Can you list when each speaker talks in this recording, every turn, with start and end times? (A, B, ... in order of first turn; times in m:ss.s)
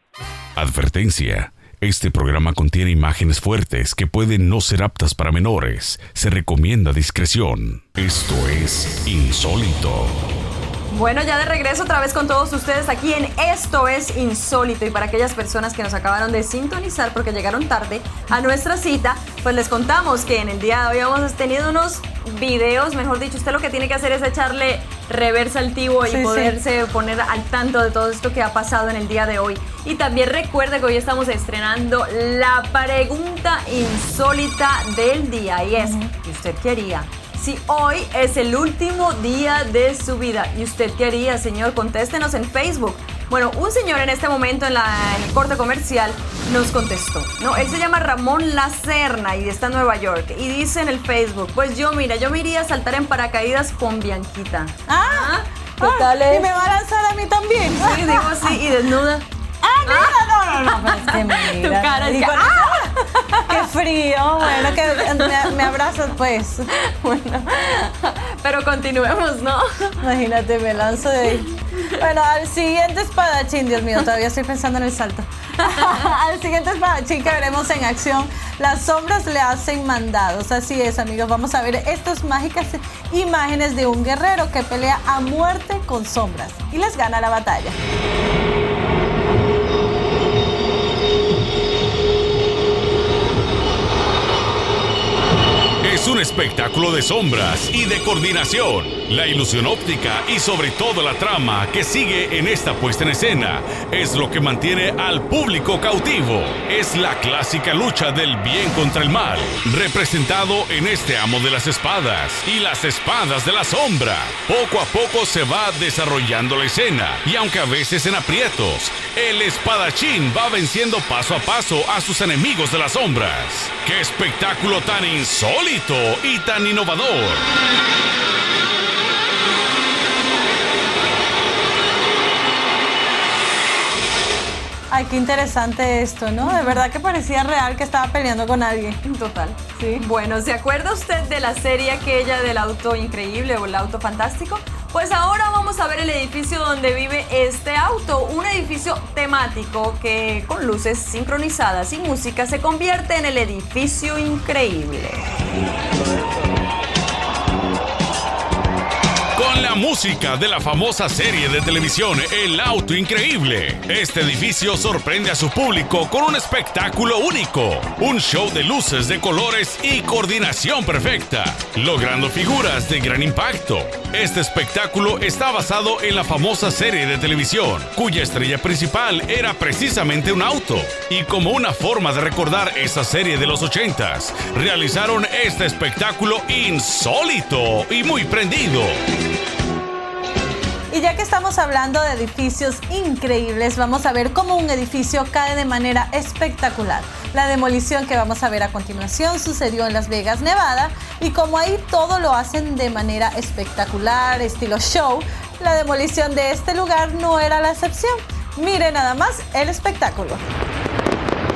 0:00.6-0:10.2 A
0:10.9-0:56.5 B
0:26.0-0:26.6 C
0:35.8-0:36.1 C
0:54.9-0:58.6 C
0:57.8-0:59.3 B
0:59.6-1:06.7 C
0:59.9-1:03.6 B
1:04.6-1:05.6 B
1:06.7-1:10.0 B
1:10.0-1:27.8 C
1:15.6-1:16.1 B
1:35.8-2:07.4 A
2:14.9-2:19.0 C
2:16.4-2:16.8 B
2:19.0-2:35.3 B
2:19.8-2:20.1 C
2:39.4-3:09.0 A
3:10.9-3:30.4 C